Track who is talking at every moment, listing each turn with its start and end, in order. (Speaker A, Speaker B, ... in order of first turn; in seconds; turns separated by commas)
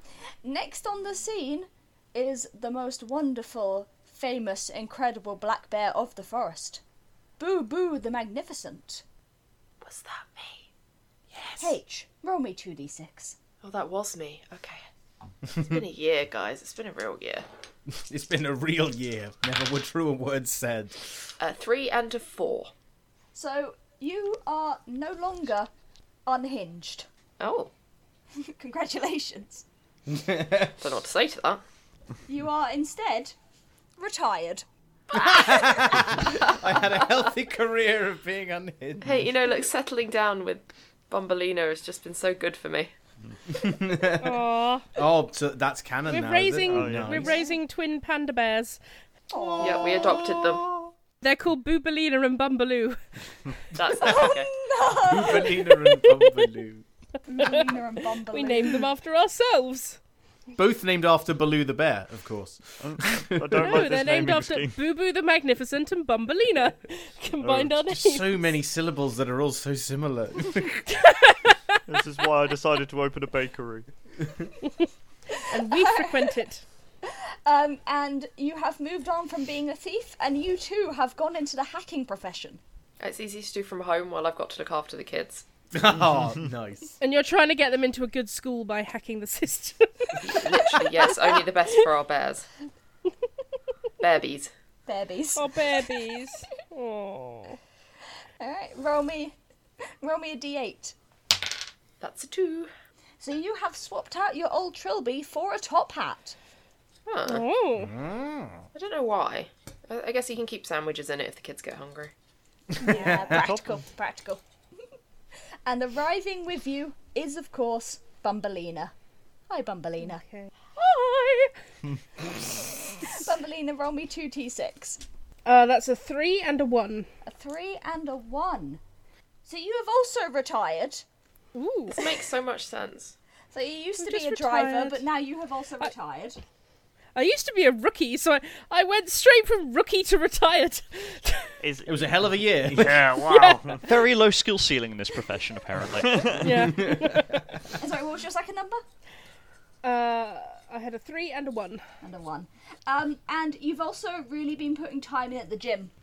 Speaker A: 0.4-6.8, Speaker A: 7.4-9.0, Speaker B: 9.8-10.7, Speaker B: 11.3-11.7, Speaker A: 11.6-13.3, Speaker B: 13.6-14.8, Speaker B: 15.5-17.4, Speaker C: 17.9-21.1, Speaker B: 21.4-22.7, Speaker A: 23.3-25.7, Speaker A: 26.2-27.1, Speaker B: 27.4-27.7, Speaker A: 28.4-29.6, Speaker C: 30.1-30.7, Speaker B: 30.8-31.6, Speaker A: 32.3-33.3, Speaker A: 34.0-36.5, Speaker C: 35.1-39.2, Speaker B: 39.0-42.9, Speaker C: 43.5-47.4, Speaker D: 44.2-44.9, Speaker D: 46.1-48.8, Speaker E: 46.6-47.4, Speaker A: 49.3-50.2, Speaker C: 49.4-50.8, Speaker B: 49.6-50.6, Speaker D: 51.2-53.0, Speaker B: 53.7-54.5, Speaker C: 54.0-54.4, Speaker A: 54.0-55.7, Speaker C: 54.9-56.8, Speaker D: 55.7-56.5, Speaker A: 57.3-58.8, Speaker D: 57.3-60.0, Speaker C: 60.5-63.8, Speaker E: 62.8-64.8, Speaker D: 63.6-68.5, Speaker E: 67.4-67.7, Speaker C: 67.9-70.9, Speaker D: 70.9-71.8, Speaker E: 71.9-73.9, Speaker D: 75.4-76.6, Speaker A: 75.7-76.2, Speaker A: 77.1-82.6, Speaker B: 83.0-85.4, Speaker C: 85.7-86.9, Speaker D: 87.0-91.9, Speaker B: 90.2-92.4, Speaker B: 94.0-94.5, Speaker A: 94.9-95.9, Speaker D: 95.3-97.6, Speaker A: 98.4-99.3, Speaker A: 100.0-100.9, Speaker B: 102.0-102.7, Speaker A: 103.2-106.3, Speaker B: 107.1-107.4, Speaker D: 107.2-108.0, Speaker C: 107.8-108.6, Speaker B: 108.7-112.1, Speaker C: 112.7-113.4, Speaker A: 112.8-114.4, Speaker D: 112.9-113.2, Speaker E: 113.3-113.6, Speaker A: 115.7-118.9, Speaker A: 119.5-120.2, Speaker D: 120.0-121.5, Speaker A: 123.0-125.0, Speaker D: 125.4-127.1, Speaker A: 127.2-128.8, Speaker A: 129.4-131.0, Speaker D: 131.5-132.0, Speaker B: 131.9-133.2, Speaker A: 133.5-136.4, Speaker D: 134.0-135.0, Speaker D: 137.1-141.5, Speaker E: 141.6-143.8, Speaker C: 141.8-143.1, Speaker D: 143.1-143.8, Speaker F: 143.8-146.3, Speaker E: 146.0-146.7, Speaker D: 146.3-147.5, Speaker C: 146.5-147.4, Speaker A: 147.8-148.8, Speaker D: 149.8-151.8, Speaker A: 152.0-155.9